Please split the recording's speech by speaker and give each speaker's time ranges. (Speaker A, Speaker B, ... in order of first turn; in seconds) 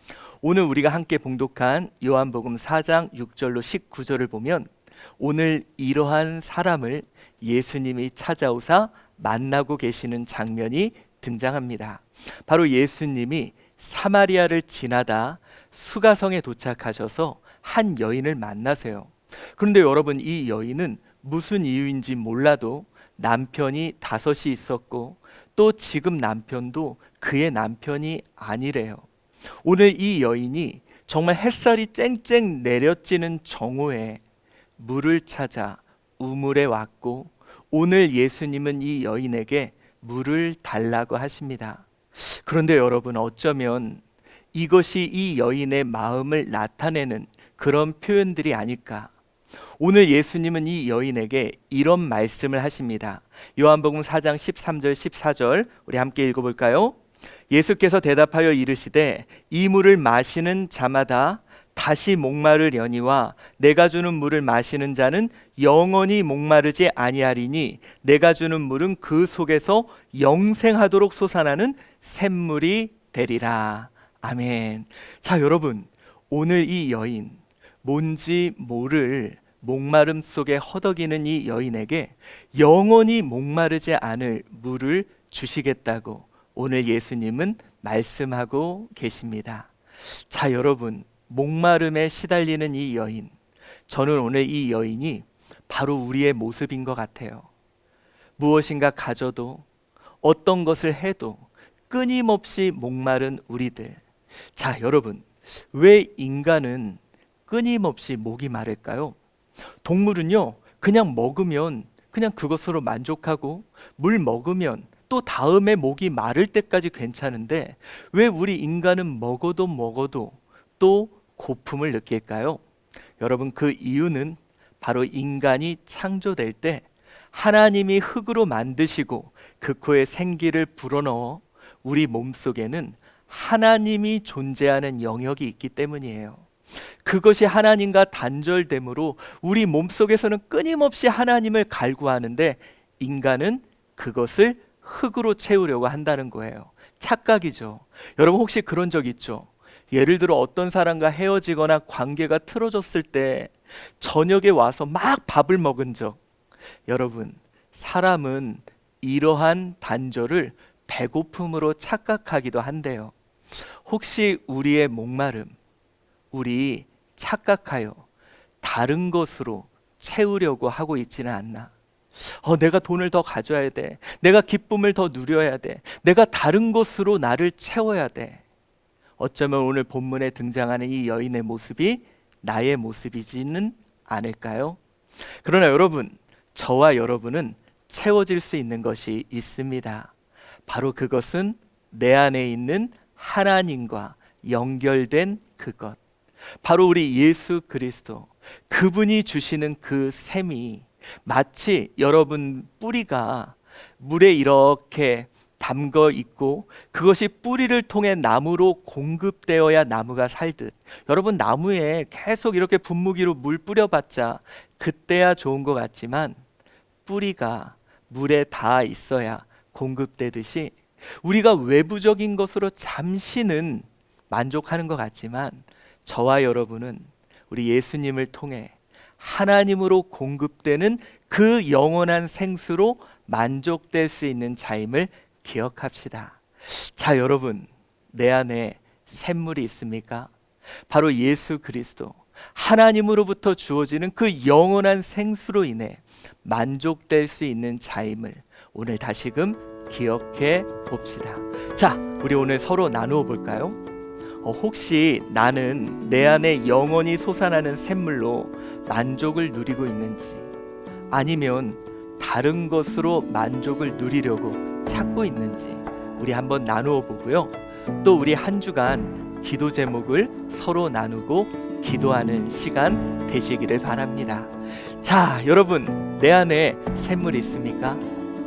Speaker A: 0.4-29.1, 29.6-34.2, 34.8-44.0, 44.5-49.1, 49.8-57.0, 57.5-89.7, 90.3-93.3, 93.9-97.5, 98.4-99.7, 100.2-104.0, 104.5-109.2, 109.8-122.6, 123.2-156.2, 156.9-163.1, 163.8-165.5, 166.3-168.1, 168.6-178.4, 179.2-184.8, 185.4-190.1, 190.7-196.0, 196.6-216.4, 217.1-240.3, 240.9-253.8, 254.4-260.5, 261.1-278.0